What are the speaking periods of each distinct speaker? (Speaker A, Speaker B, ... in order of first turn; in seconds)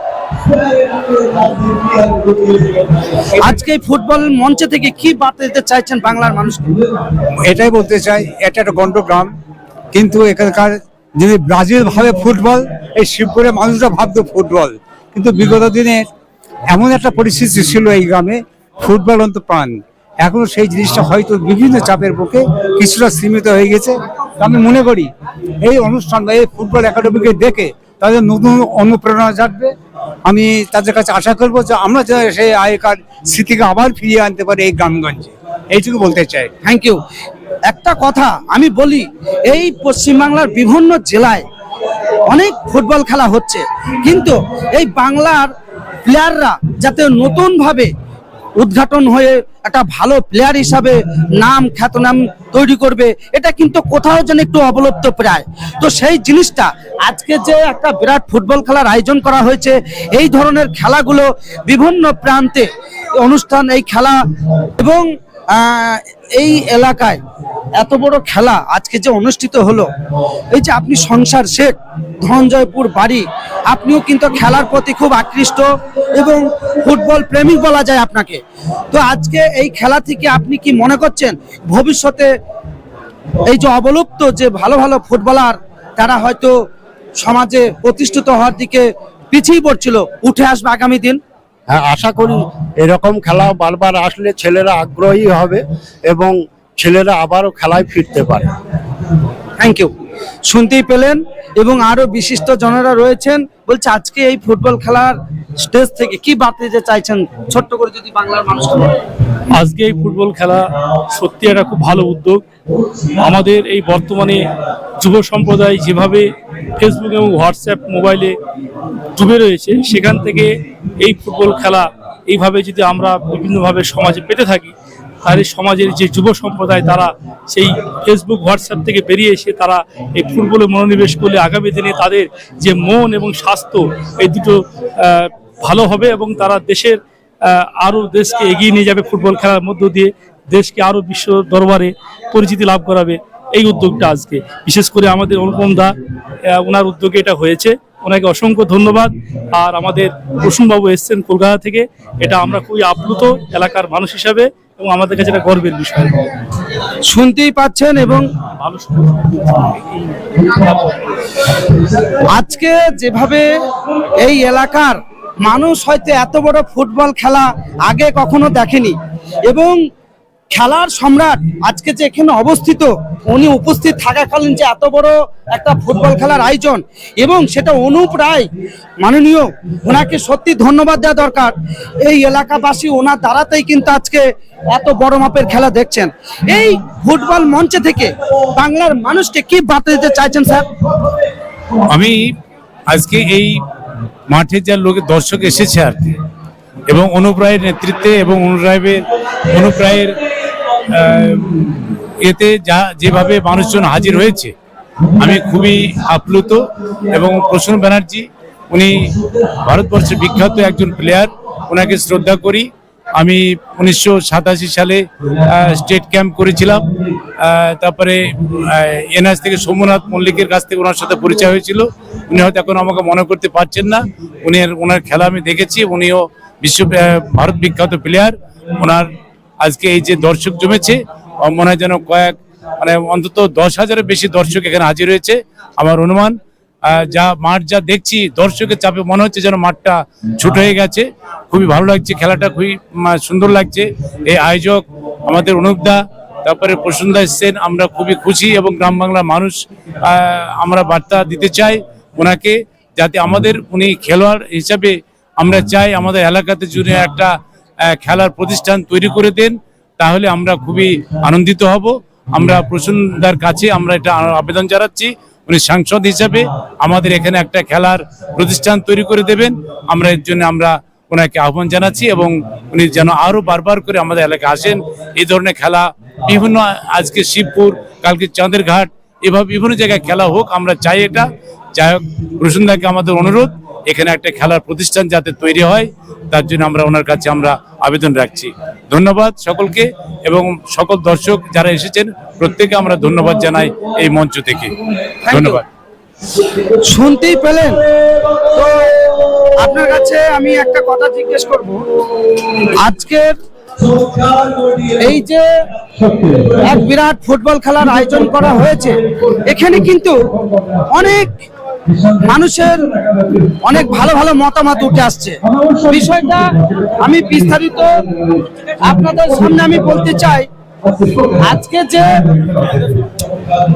Speaker A: 3.4-6.6, 36.6-37.0, 37.7-41.4, 42.3-45.5, 46.0-47.9, 48.6-64.2, 64.8-67.2, 67.8-69.9, 70.5-82.3, 83.4-86.5, 87.2-91.2, 99.6-99.9, 100.5-109.0, 157.0-158.2, 162.2-163.5, 164.2-169.8, 170.5-178.5, 179.0-190.7, 295.2-295.6, 296.7-297.8, 298.3-301.9, 302.6-303.4, 304.7-305.5, 306.3-310.2, 310.9-311.3, 312.2-312.8, 313.6-317.9, 318.8-320.5, 321.3-323.0
Speaker B: 7.5-9.3, 9.9-16.0, 16.7-25.1, 25.6-29.7, 30.3-36.5
Speaker C: 91.7-98.5
Speaker D: 109.5-112.4, 113.2-114.5, 115.0-118.4, 119.2-124.7, 125.2-145.9, 146.5-156.3, 158.6-160.9
Speaker E: 191.9-192.3, 192.9-193.6, 194.3-196.0, 196.9-200.2, 200.8-204.5, 205.2-216.8, 217.4-229.1, 229.6-294.7, 295.3-295.6